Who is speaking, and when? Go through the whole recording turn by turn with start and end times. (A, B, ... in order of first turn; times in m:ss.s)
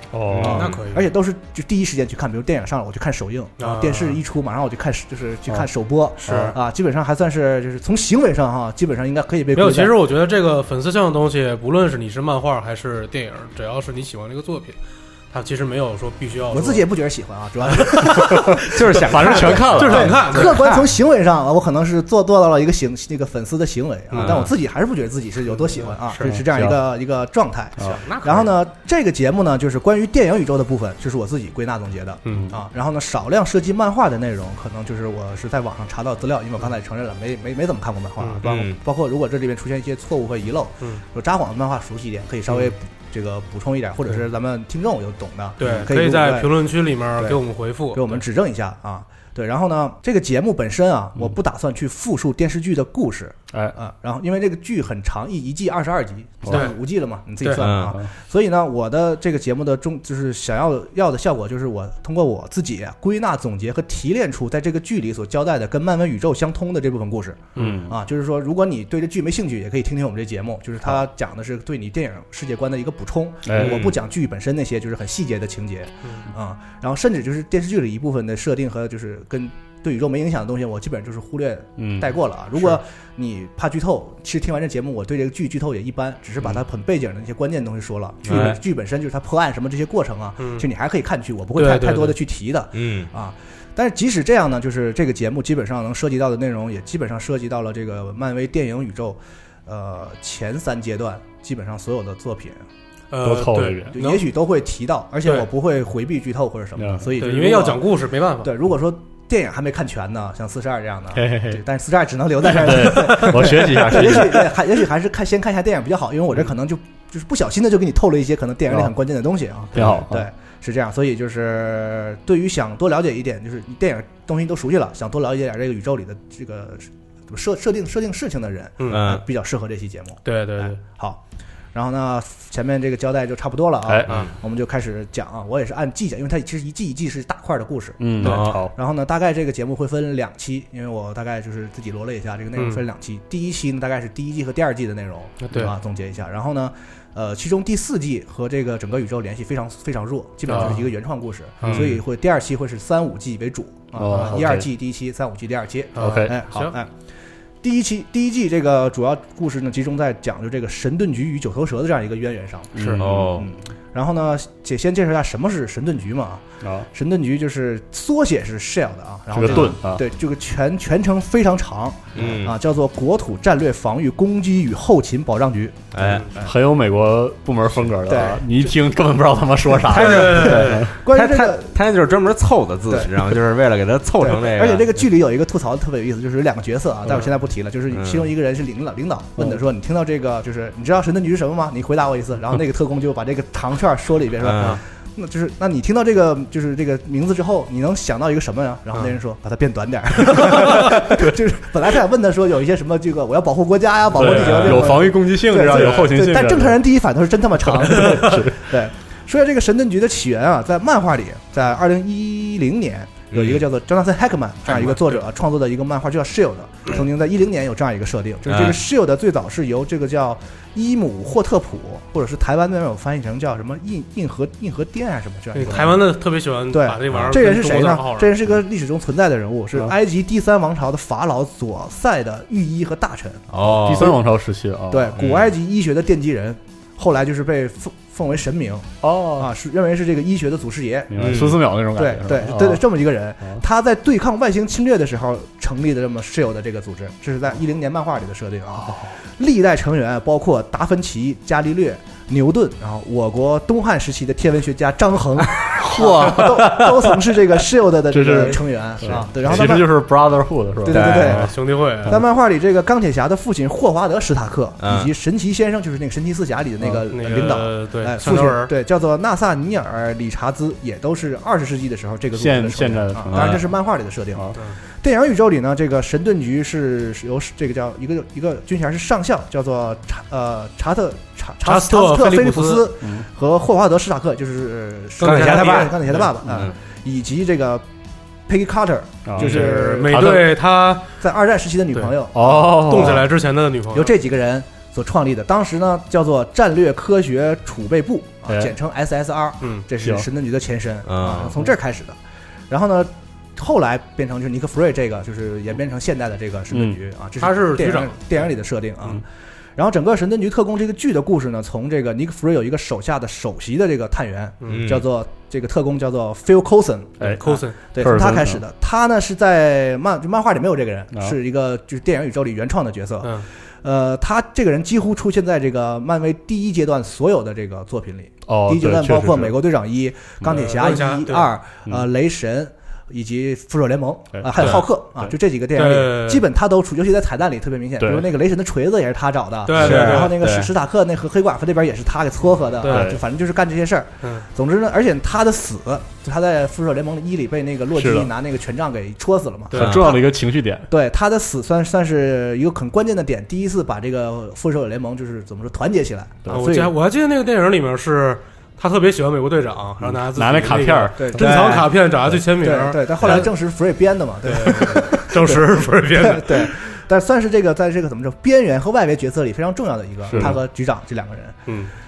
0:00.1-0:00.8 A
0:00.3-0:10.0 B
0:00.4-0:01.1 C
0:03.6-0:04.2 C
0:06.2-0:06.5 C
0:06.2-0:06.5 A
0:09.5-0:14.8 C
0:15.3-0:16.8 C
0:16.5-0:46.5 B
0:17.9-0:18.2 C
0:18.2-0:20.4 A
0:18.6-0:20.6 D
0:19.1-0:20.9 C
0:24.1-0:24.5 D
0:24.1-0:24.4 C
0:25.5-0:26.4 C
0:26.2-0:26.8 A
0:27.8-0:28.5 C
0:38.4-0:38.8 D
0:45.6-0:48.2 C
0:47.9-1:42.6 B
0:56.4-0:56.7 A
0:56.5-0:56.8 C
0:57.6-0:58.0 D
0:57.8-0:58.1 A
1:07.6-1:08.0 A
1:13.5-1:13.9 A
1:13.6-1:13.9 D
1:21.8-1:22.1 A
1:28.3-1:28.6 C
1:28.3-1:28.5 A
1:30.4-1:30.6 C
1:31.6-1:32.2 C
1:32.7-1:33.1 D
1:43.1-1:44.3 C
1:43.2-1:43.9 A
1:43.9-1:47.9 B
1:46.8-1:47.1 A
1:47.2-1:48.5 C
1:48.4-2:11.2 B
1:51.1-1:51.6 A
1:52.4-1:54.6 A
1:59.8-2:00.3 A
2:08.8-2:09.0 C
2:08.9-2:09.2 D
2:10.2-2:10.8 C
2:11.7-2:36.9 B
2:13.8-2:14.2 A
2:18.0-2:18.7 A
2:18.2-2:18.6 D
2:25.4-2:25.7 C
2:30.5-2:30.8 C
2:31.6-2:31.9 C
2:31.6-2:31.9 D
2:34.0-2:34.6 A
2:36.0-2:36.7 C
2:36.0-2:36.3 A
2:37.6-2:56.5 B
2:42.7-2:43.4 A
2:43.0-2:43.5 D
2:46.6-2:46.9 A
2:49.3-2:50.0 A
2:52.1-2:52.6 D
2:55.9-2:56.3 D
2:56.3-3:01.0 A
2:58.0-2:58.5 B
2:59.9-3:01.8 B
2:59.9-3:00.9 C
2:59.9-3:04.9 D
3:04.2-3:46.1 B
3:07.9-3:08.3 D
3:14.4-3:14.8 D
3:20.4-3:21.4 A
3:24.1-3:26.8 A
3:24.2-3:24.9 C
3:25.7-3:26.1 C
3:27.6-3:28.7 A
3:28.0-3:28.4 C
3:33.3-3:33.6 D
3:34.8-3:35.1 C
3:38.5-3:38.8 D
3:45.5-3:48.4 C
3:46.7-3:53.5 B
3:47.1-3:47.4 D
3:53.5-3:54.2 D
3:53.7-3:55.2 A
3:54.9-4:19.9 B
3:55.2-3:55.5 D
3:59.0-3:59.5 A
4:01.1-4:02.8 A
4:01.2-4:01.6 D
4:15.8-4:17.1 A
4:18.1-4:22.2 A
4:20.9-4:21.5 B
4:20.9-4:22.2 C
4:22.0-4:47.8 B
4:24.8-4:25.1 D
4:27.1-4:28.7 C
4:32.4-4:33.7 A
4:33.3-4:33.6 D
4:41.6-4:42.9 C
4:43.0-4:43.2 A
4:45.2-4:46.3 C
4:45.2-4:46.0 D
4:46.4-4:46.7 A
4:48.5-4:50.3 B
4:49.2-4:50.6 A
4:49.4-4:51.1 C
4:51.2-4:53.3 B
4:52.4-4:53.3 A
4:52.8-4:54.1 C
4:53.9-5:02.2 B
4:58.5-4:58.7 A
5:01.0-5:01.6 D
5:02.7-5:09.2 B
5:06.7-5:07.0 A
5:07.4-5:08.4 C
5:09.8-5:50.3 B
5:14.7-5:15.0 D
5:17.4-5:17.8 C
5:18.0-5:18.6 A
5:28.5-5:29.5 A
5:30.4-5:31.5 C
5:34.3-5:35.3 A
5:34.6-5:34.9 C
5:35.7-5:36.4 C
5:38.0-5:38.3 A
5:39.6-5:40.4 C
5:39.8-5:40.7 D
5:42.8-5:43.1 C
5:42.8-5:43.2 A
5:47.9-5:48.3 A
5:49.7-5:50.0 C
5:49.7-5:50.9 A
5:50.9-5:56.9 B
5:56.5-6:03.5 C
6:00.0-6:01.4 A
6:01.2-6:01.9 B
6:01.4-6:01.8 D
6:02.6-6:11.6 B
6:04.4-6:06.7 C
6:10.2-6:10.6 A